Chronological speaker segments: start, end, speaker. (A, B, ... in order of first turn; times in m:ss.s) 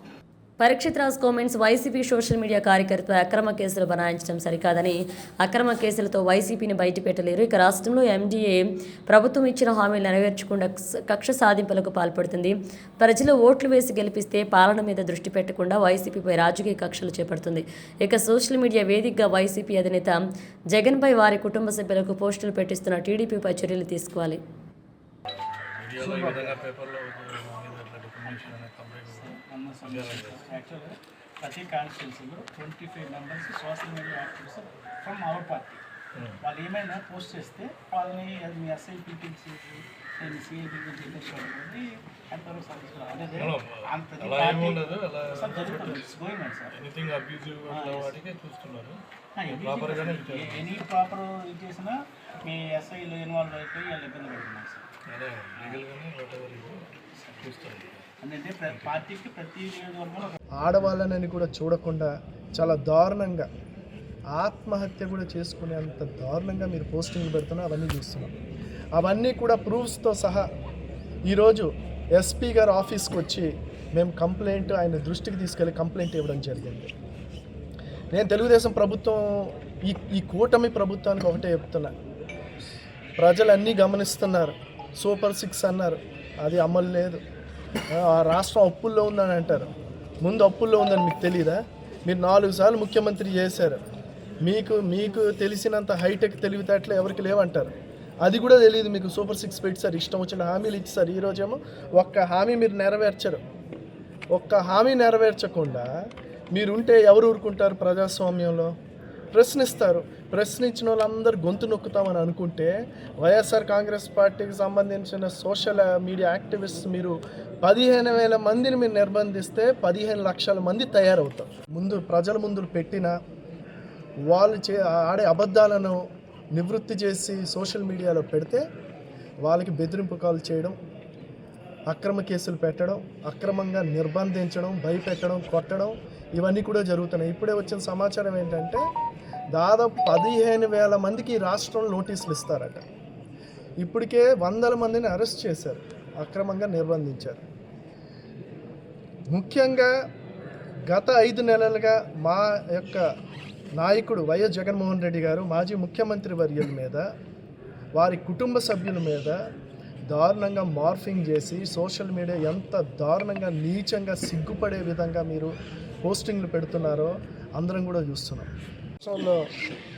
0:00.6-0:24.4 A
0:25.2-0:30.5 B
0:29.0-0:35.8 C
0:36.4-0:46.8 C
0:43.3-0:46.1 B
0:46.7-0:50.8 B
0:47.7-0:48.2 C
0:49.4-0:54.8 C
0:55.1-0:56.8 B
0:55.5-0:55.8 C
0:57.2-0:57.5 C
0:57.4-0:58.1 B
0:58.2-1:00.4 C
0:58.6-0:59.0 B
1:00.6-1:03.5 D
1:04.4-1:08.4 D
1:09.0-1:10.5 D
1:11.3-1:16.9 D
1:18.1-1:21.9 D
1:23.2-1:27.2 D
1:27.9-1:29.7 D
1:30.2-1:33.8 D
1:34.4-1:37.7 D
1:38.2-1:43.4 D
1:44.3-1:45.9 D
1:46.5-1:48.7 D
1:49.3-2:03.2 D
2:04.3-2:06.0 D
2:06.5-2:08.6 D
2:09.4-2:10.8 D
2:11.9-2:18.8 D
2:19.5-2:22.8 D
2:23.8-2:27.4 D
2:29.3-2:29.9 D
2:30.9-2:33.0 D
2:33.8-2:37.0 D
2:38.0-2:39.4 D
2:40.1-2:45.5 D
2:46.0-2:48.5 D
2:49.0-2:49.4 D